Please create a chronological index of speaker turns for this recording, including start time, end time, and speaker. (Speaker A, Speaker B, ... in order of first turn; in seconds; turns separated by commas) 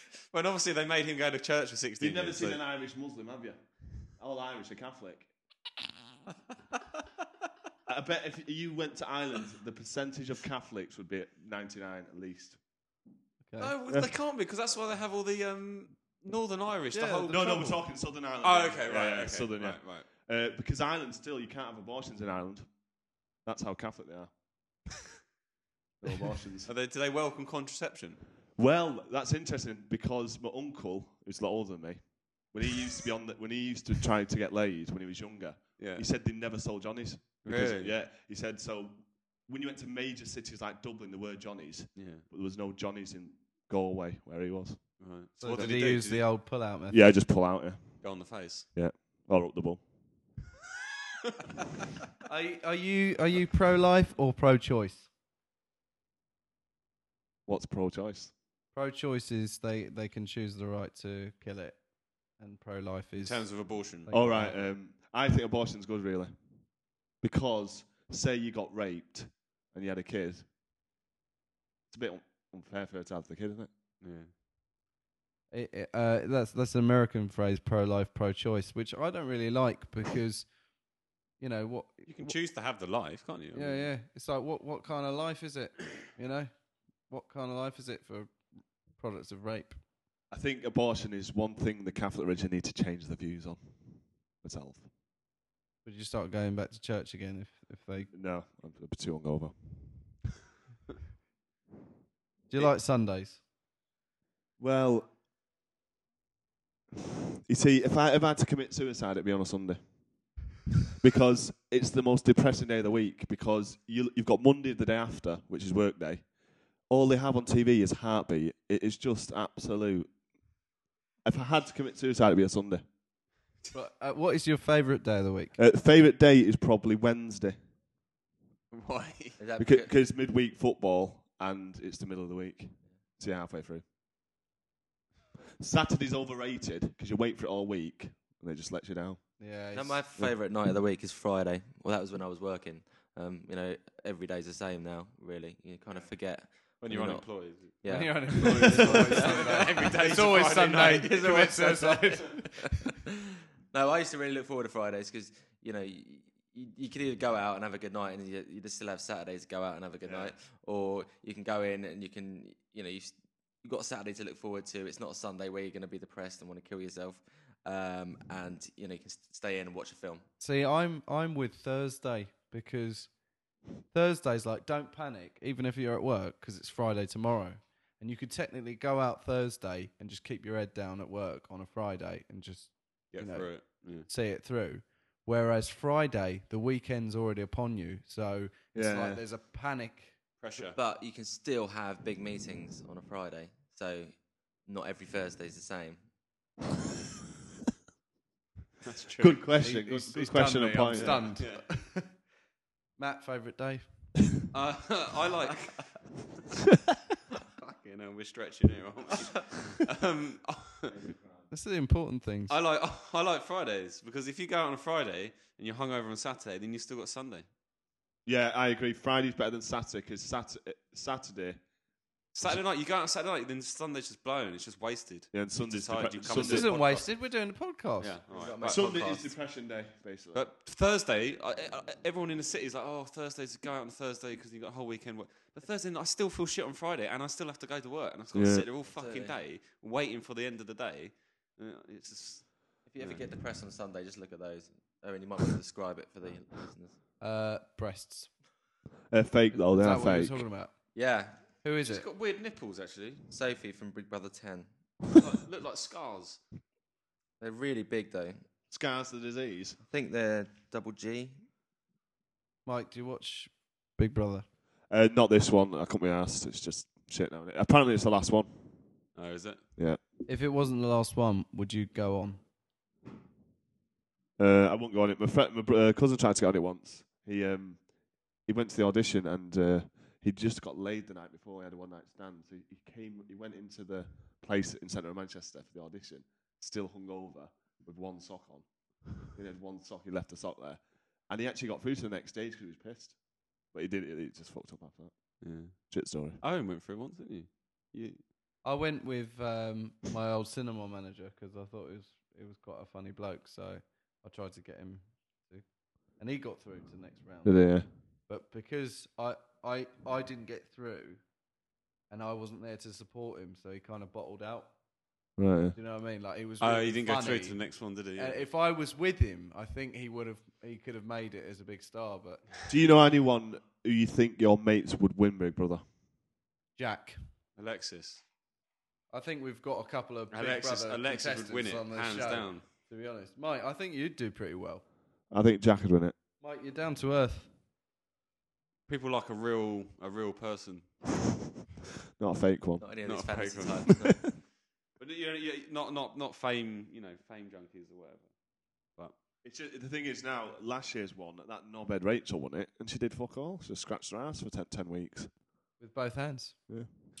Speaker A: 0.3-2.6, Speaker B: 2.0-5.3, Speaker B: 7.9-12.6, Speaker C: 13.4-13.7, Speaker A: 13.6-17.8, Speaker C: 16.9-17.8, Speaker B: 17.3-22.7, Speaker A: 18.4-20.1, Speaker B: 23.4-24.3, Speaker B: 26.0-26.7, Speaker A: 26.6-28.2, Speaker B: 28.6-44.8, Speaker A: 35.8-36.0, Speaker A: 37.4-38.0, Speaker A: 42.0-42.2, Speaker A: 45.0-46.3, Speaker C: 45.4-47.1, Speaker B: 46.9-49.8, Speaker A: 48.0-48.7, Speaker C: 52.2-55.1, Speaker B: 57.5-58.3, Speaker C: 58.7-61.8, Speaker C: 62.3-64.6, Speaker A: 63.2-64.1, Speaker B: 64.1-66.3, Speaker B: 67.2-70.5, Speaker B: 71.9-73.7, Speaker A: 74.0-74.3, Speaker C: 75.5-80.5, Speaker C: 81.4-82.3, Speaker A: 82.1-83.9, Speaker C: 83.5-86.5, Speaker C: 87.1-89.8, Speaker B: 90.3-94.9, Speaker C: 95.8-98.1, Speaker B: 98.1-99.6, Speaker C: 102.5-103.4, Speaker B: 104.6-105.1, Speaker B: 107.5-109.8, Speaker B: 111.0-116.3, Speaker B: 116.9-120.1, Speaker B: 121.2-122.8, Speaker C: 123.7-125.6, Speaker B: 125.6-127.6, Speaker A: 128.7-129.4, Speaker D: 129.4-129.9, Speaker B: 129.6-133.8, Speaker B: 135.6-139.3, Speaker C: 139.4-140.0, Speaker D: 139.7-150.3, Speaker A: 146.8-152.2, Speaker C: 147.8-152.8, Speaker D: 150.8-153.0, Speaker D: 153.7-170.2, Speaker B: 160.0-160.3, Speaker C: 170.4-173.1, Speaker C: 173.9-190.2, Speaker A: 183.1-184.1, Speaker B: 188.7-189.2, Speaker A: 190.4-190.8, Speaker D: 190.7-196.0, Speaker A: 198.8-199.4, Speaker B: 199.2-201.3, Speaker C: 199.6-202.2, Speaker A: 200.9-201.9, Speaker C: 203.0-204.1, Speaker A: 204.5-206.1, Speaker A: 207.6-210.9, Speaker B: 210.9-211.4, Speaker C: 211.5-212.5, Speaker A: 212.5-217.5, Speaker B: 218.2-221.6, Speaker A: 222.3-227.2, Speaker B: 225.3-226.7, Speaker C: 226.3-228.2, Speaker A: 228.0-228.9, Speaker D: 228.3-229.3, Speaker B: 228.6-230.4, Speaker A: 230.3-243.2, Speaker B: 238.3-238.7, Speaker D: 238.8-239.4, Speaker D: 242.8-247.0, Speaker C: 247.2-248.3, Speaker B: 249.1-250.4, Speaker C: 249.5-250.9, Speaker D: 250.9-251.5, Speaker C: 251.6-252.1, Speaker A: 251.8-253.1, Speaker D: 253.1-254.7, Speaker A: 255.1-256.4, Speaker D: 257.4-258.4, Speaker B: 258.7-259.8, Speaker D: 259.9-261.4, Speaker C: 262.6-264.4, Speaker B: 264.9-268.8, Speaker A: 269.1-269.6, Speaker C: 270.3-272.4, Speaker B: 274.4-277.9, Speaker B: 278.4-293.2, Speaker B: 293.7-295.1, Speaker A: 295.4-298.2, Speaker B: 295.9-296.4, Speaker C: 298.6-311.2, Speaker B: 307.4-307.9, Speaker C: 312.1-314.8, Speaker B: 315.4-315.8, Speaker C: 315.7-322.5, Speaker A: 316.6-318.4, Speaker B: 322.7-325.8, Speaker C: 326.8-327.3, Speaker A: 327.6-328.2, Speaker C: 329.1-334.8, Speaker A: 330.3-332.6, Speaker B: 335.3-336.1, Speaker C: 336.4-337.5, Speaker A: 338.9-341.0, Speaker B: 342.2-342.8, Speaker D: 342.8-344.3, Speaker A: 343.0-344.4, Speaker A: 345.0-348.3, Speaker B: 349.4-355.3, Speaker C: 355.8-356.6